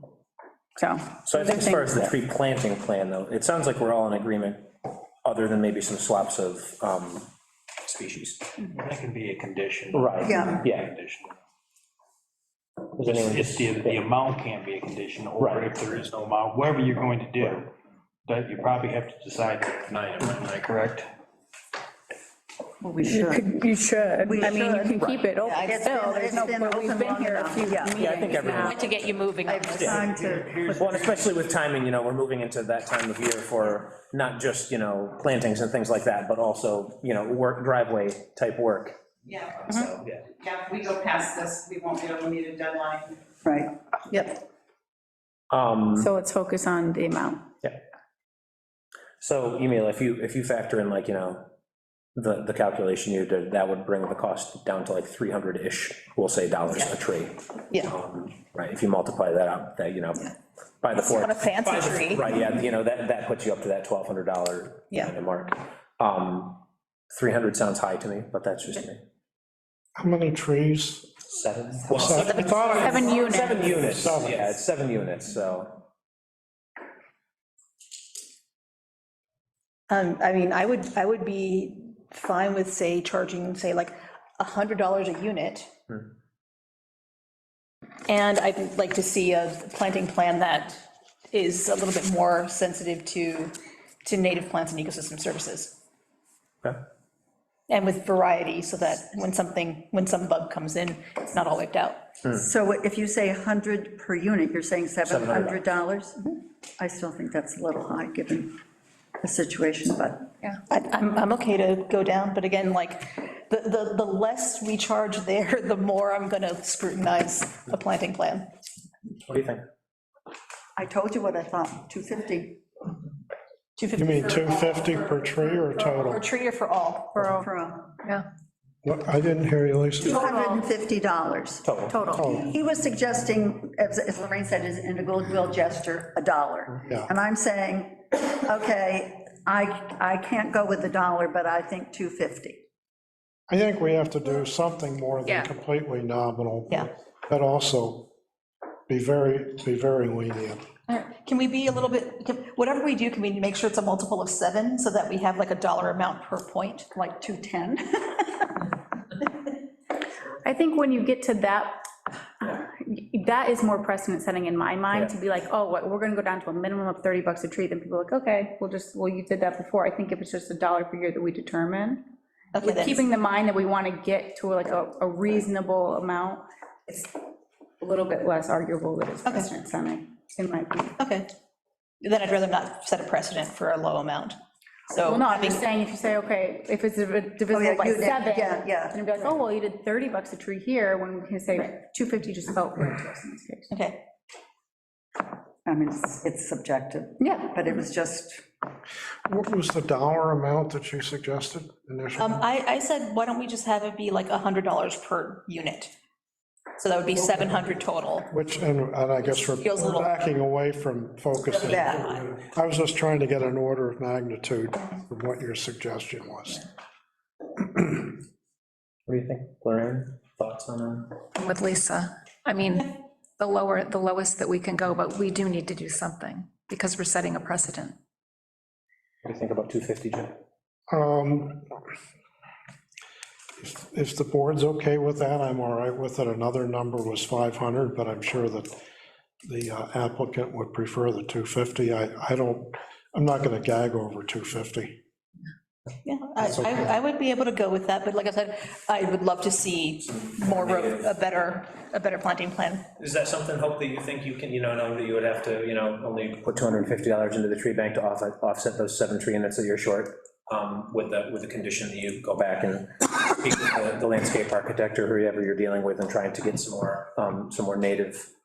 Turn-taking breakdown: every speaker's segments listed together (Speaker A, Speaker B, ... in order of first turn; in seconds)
Speaker A: 0.8-2.1, 23.0-28.9, 46.0-47.5, 72.8-73.8, 127.1-127.5, 160.4-161.8, 162.4-172.0, 172.6-177.1, 177.8-180.9, 185.0-193.7, 197.2-197.6
Speaker B: 1.2-4.7, 5.2-7.3, 7.8-8.5, 9.9-10.9, 13.0-14.0, 15.4-15.7, 28.0-29.2, 29.7-30.1, 30.6-39.0, 39.7-40.2, 45.5-46.1, 49.2-51.5, 52.1-69.0, 71.3-75.8, 105.0-105.6, 119.2-119.6, 131.6-132.0, 219.1-221.2, 229.2-230.4, 250.4-251.2, 253.0-268.3
Speaker C: 8.7-11.4, 13.0-17.7, 18.2-21.1, 29.8-31.4
Speaker D: 10.2-10.6, 22.8-23.4, 24.2-28.1, 29.4-30.6, 43.4-43.7, 102.3-108.5, 109.2-110.3, 120.8-122.6, 127.2-127.9, 130.0-142.6, 156.9-158.7, 187.5-189.0, 195.7-198.4, 211.7-212.0
Speaker E: 25.4-25.7, 29.4-29.7, 44.1-44.4, 60.9-62.5, 79.9-85.7, 88.1-95.8, 97.7-102.1, 110.7-118.5, 123.8-127.1, 150.9-156.9, 172.5-173.0, 181.0-181.3, 182.0-184.3, 184.9-185.6, 193.7-194.0, 202.2-205.9, 206.8-208.3, 209.2-210.1, 211.5-212.2, 246.0-252.8
Speaker F: 28.5-29.9, 221.4-227.9
Speaker G: 39.2-39.6, 40.3-43.2, 72.9-73.7
Speaker H: 70.0-71.2, 71.9-73.0, 73.7-74.4, 123.9-126.2, 128.8-130.2, 132.1-132.5, 136.8-137.1, 143.5-148.1, 148.9-150.6, 199.2-202.4, 208.3-216.6, 230.9-231.7, 233.6-238.8, 239.4-244.9, 246.5-246.8